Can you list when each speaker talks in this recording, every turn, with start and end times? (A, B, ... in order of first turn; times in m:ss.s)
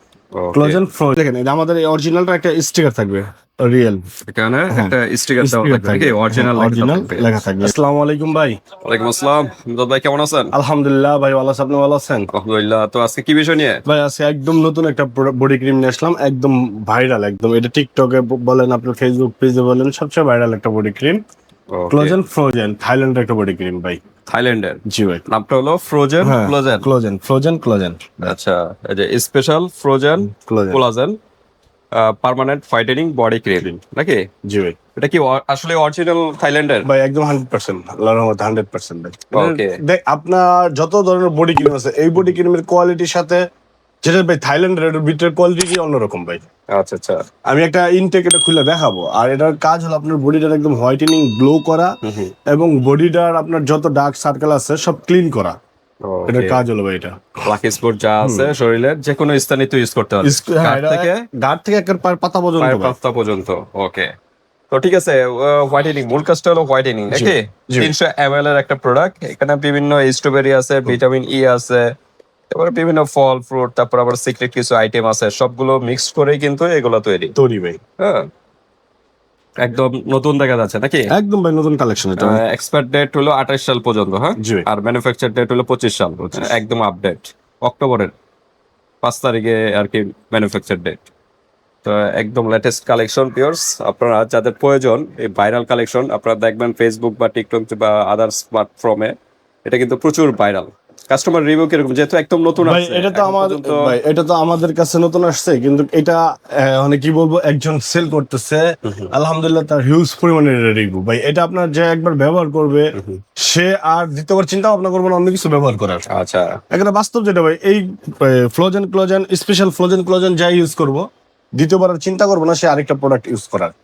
0:00.3-0:00.8 A
0:00.5-0:04.0 B
0:04.2-0:07.7 A
0:04.7-0:08.6 B
0:08.8-0:10.5 A
0:10.5-0:12.3 B
0:12.3-0:13.8 A
0:13.8-0:21.2 B
0:21.7-0:22.2 A
0:21.9-0:24.0 B
0:24.3-0:26.9 A
0:24.9-0:25.2 B
0:26.2-0:28.4 B
0:28.2-0:31.2 A
0:30.3-0:30.8 B
0:31.9-0:34.2 A
0:34.5-0:34.8 B
0:35.0-0:36.9 A
0:36.8-0:43.4 B
0:39.3-0:39.7 A
0:44.0-0:46.4 B
0:46.7-0:47.2 A
0:47.5-0:51.9 B
0:52.0-0:52.3 A
0:52.5-0:55.6 B
0:56.0-0:56.6 A
0:56.3-0:57.1 B
0:57.4-1:01.2 A
0:58.2-0:58.5 B
1:00.2-1:02.9 B
1:02.6-1:04.1 A
1:04.7-1:11.9 A
1:07.1-1:07.9 B
1:12.5-1:17.3 A
1:17.4-1:17.8 B
1:18.0-1:18.2 A
1:19.6-1:21.0 A
1:21.1-1:22.4 B
1:22.2-1:28.1 A
1:24.4-1:24.6 B
1:26.3-1:26.5 B
1:29.0-1:31.0 A
1:31.8-1:39.1 A
1:39.6-1:44.0 A
1:42.6-1:56.1 B
1:56.1-1:56.6 A
1:56.7-2:01.0 B
2:01.6-2:03.7 B